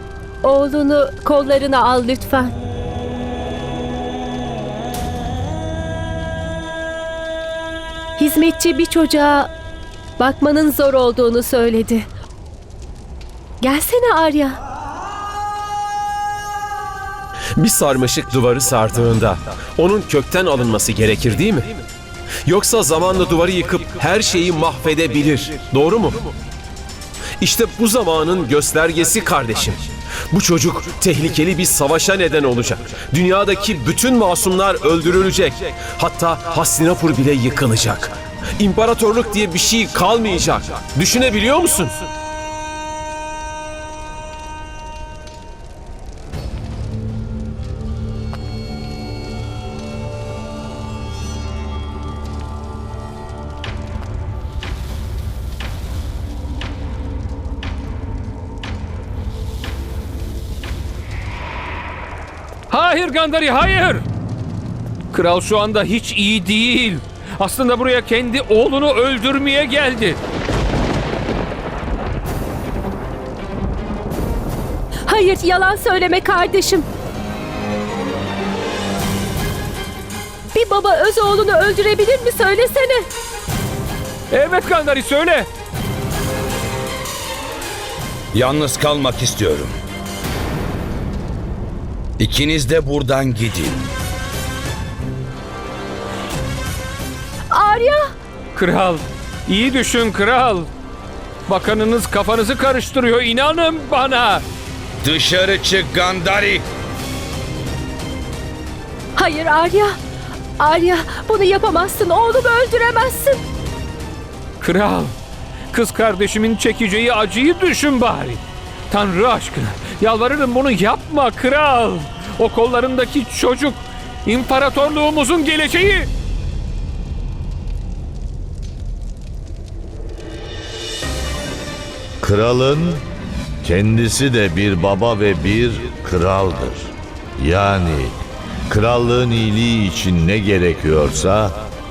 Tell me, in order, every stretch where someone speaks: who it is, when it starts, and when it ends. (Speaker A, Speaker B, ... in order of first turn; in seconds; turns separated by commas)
Speaker A: 0.4-2.5, Speaker A: 8.2-9.5, Speaker A: 10.2-12.1, Speaker A: 13.6-14.6, Speaker B: 17.6-21.8, Speaker B: 22.5-26.3, Speaker B: 27.4-42.1, Speaker C: 62.7-64.0, Speaker C: 65.1-70.2, Speaker A: 75.1-76.9, Speaker A: 80.5-83.1, Speaker C: 84.3-85.5, Speaker D: 88.3-89.8, Speaker D: 92.2-93.9, Speaker A: 97.5-98.0, Speaker C: 98.5-100.7, Speaker C: 101.5-104.4, Speaker D: 105.0-106.7, Speaker A: 109.2-110.0, Speaker A: 110.6-113.4, Speaker C: 114.6-115.1, Speaker C: 115.7-126.1, Speaker E: 132.2-133.0, Speaker E: 133.6-141.6